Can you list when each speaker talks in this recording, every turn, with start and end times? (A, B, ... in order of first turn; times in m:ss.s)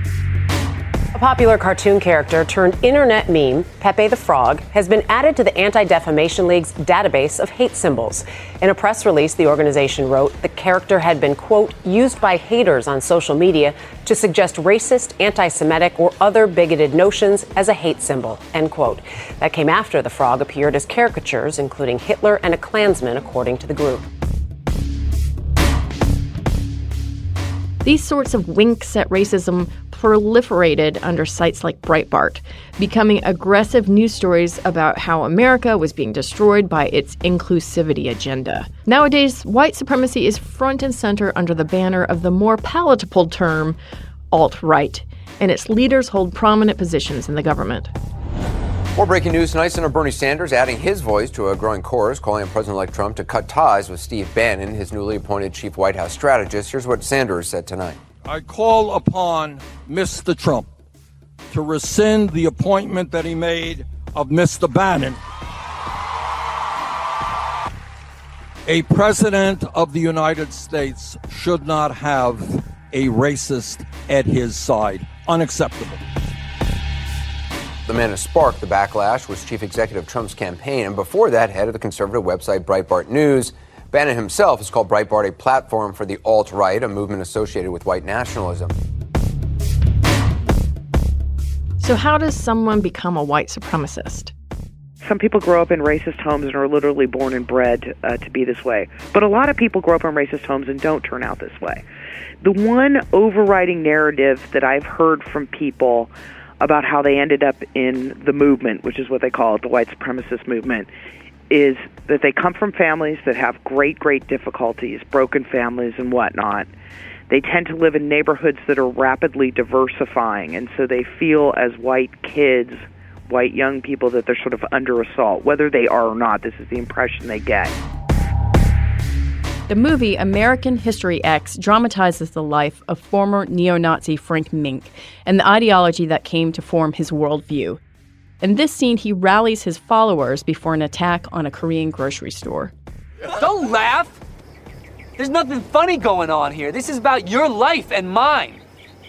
0:01.1-0:24.1 A
0:27.8-0:43.8 B
0:44.3-0:47.9 B
0:48.9-0:58.0 C
0:58.2-1:00.7 D
1:01.5-1:05.2 D
1:08.7-1:16.0 D
1:17.8-1:28.7 C
1:31.8-1:34.3 B
1:35.0-1:41.8 E
1:42.4-1:50.9 E
1:51.5-1:56.7 E
1:57.3-2:07.7 E
2:09.7-2:17.8 B
2:18.4-2:22.7 B
2:23.3-2:24.2 F
2:25.2-2:28.6 F